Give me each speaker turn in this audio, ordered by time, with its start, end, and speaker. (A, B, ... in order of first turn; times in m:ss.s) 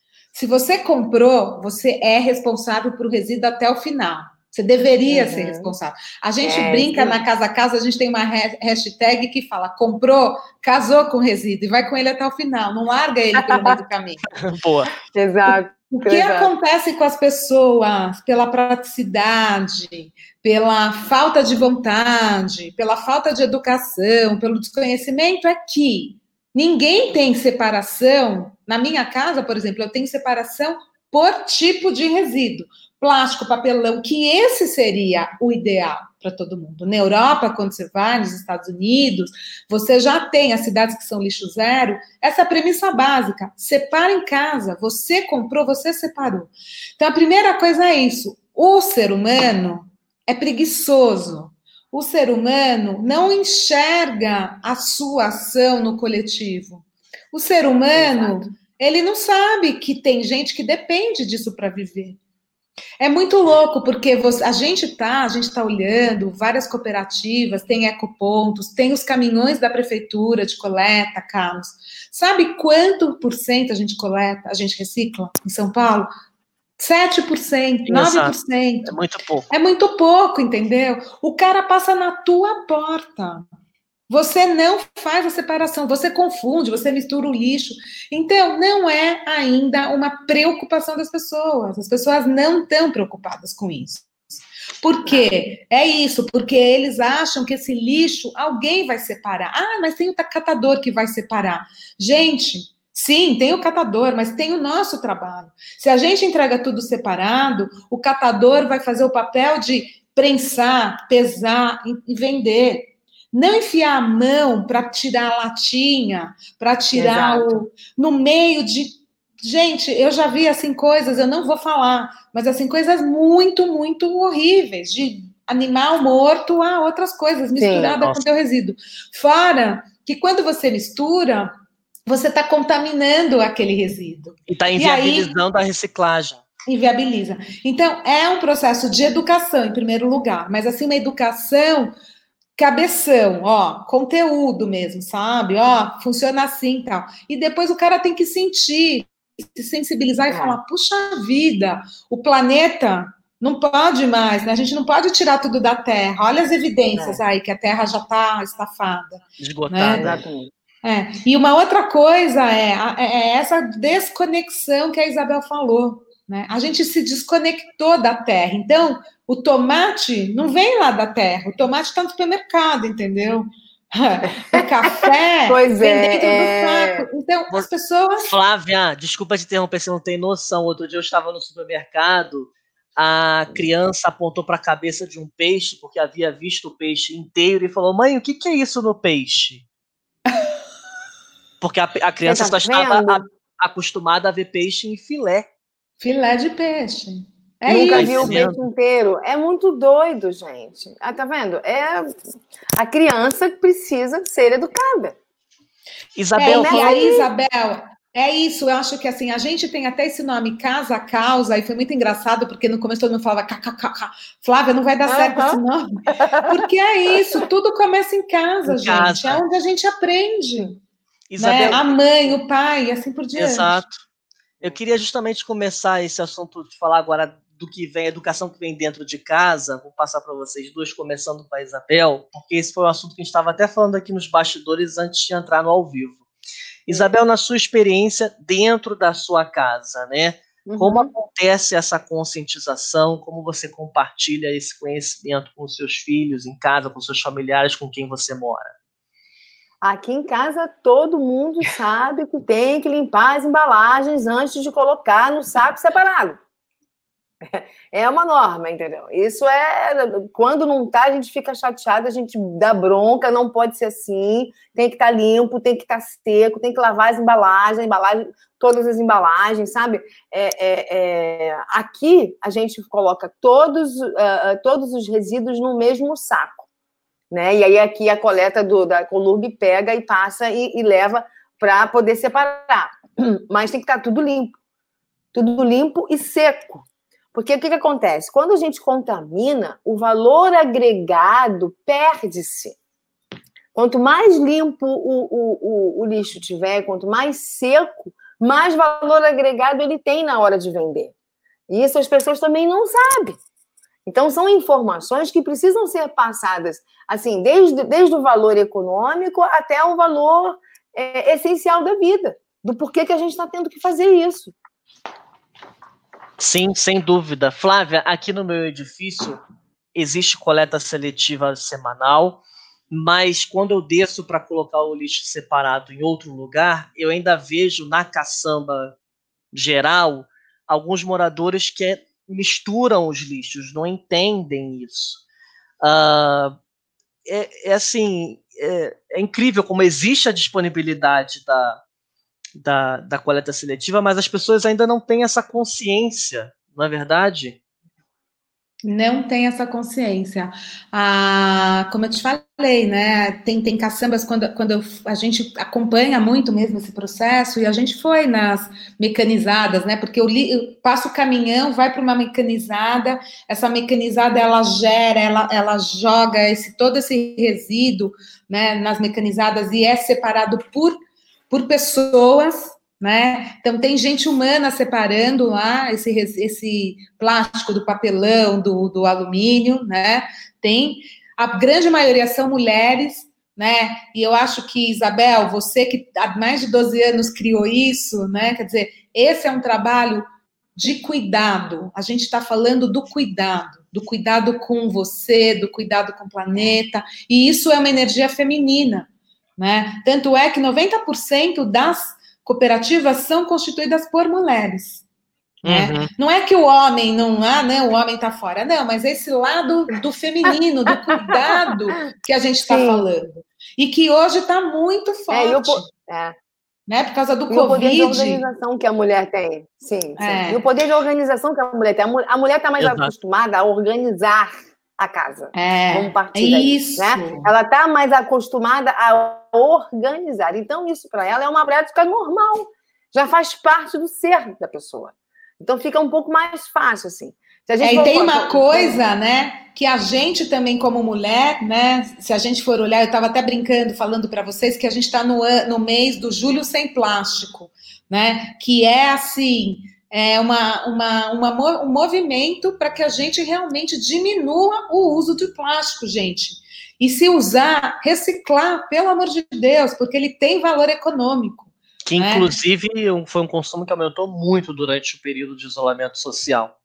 0:00.3-0:14.2 A
0:05.1-0:05.7 B
0:06.4-0:07.2 B
0:13.4-0:13.8 B
0:14.3-0:14.9 C
0:15.0-0:16.5 B
0:16.0-1:02.2 A
0:57.9-0:58.4 B
1:03.0-1:16.1 A
1:16.8-1:19.0 A
1:17.8-1:18.3 C
1:18.9-1:19.5 C
1:19.5-1:23.4 A
1:24.1-1:34.1 A
1:34.8-2:11.5 A
1:56.9-1:57.6 B
2:07.6-2:08.0 B
2:07.9-2:08.2 C
2:12.1-2:15.3 A
2:14.5-2:16.4 C
2:16.6-2:21.9 A
2:22.6-2:40.1 A
2:30.3-2:30.6 B
2:37.0-2:37.2 B
2:39.4-2:40.2 C
2:40.0-2:40.5 B
2:40.8-2:58.3 A
2:54.5-2:57.0 B
2:58.2-3:09.6 C
3:11.6-3:15.5 C
3:12.2-3:13.2 B
3:16.0-3:18.4 A
3:17.6-3:22.2 B
3:17.9-3:18.6 C
3:22.8-3:25.2 B
3:26.2-3:27.0 C
3:26.4-3:40.8 A
3:26.4-3:27.3 B
3:35.1-3:37.4 B
3:38.7-3:39.4 C
3:41.3-3:42.0 C
3:41.4-3:43.8 A
3:43.4-3:44.0 C
3:44.6-3:56.2 C
3:56.8-4:08.7 C
4:00.6-4:01.1 B
4:09.8-4:16.4 B
4:17.4-4:36.7 B
4:37.3-4:44.5 B
4:45.3-4:52.8 B
4:53.7-5:01.1 B
5:01.7-5:03.4 B
5:04.0-5:14.5 B
5:16.4-5:19.4 C
5:19.9-5:28.9 C
5:29.5-5:35.2 C
5:35.8-5:36.6 C
5:37.2-5:41.8 C
5:42.6-5:47.6 C
5:48.8-6:11.0 A
6:11.5-6:30.2 A
6:30.8-6:45.0 A
6:45.6-6:46.1 C
6:45.6-6:55.9 A
6:51.1-6:51.7 B
6:52.7-6:53.1 B
6:55.3-6:56.4 B
6:56.9-6:58.4 A
6:57.5-7:19.0 B
7:00.2-7:00.6 A
7:02.8-7:03.1 C
7:05.5-7:07.5 A
7:17.8-7:42.5 A
7:42.0-7:46.7 C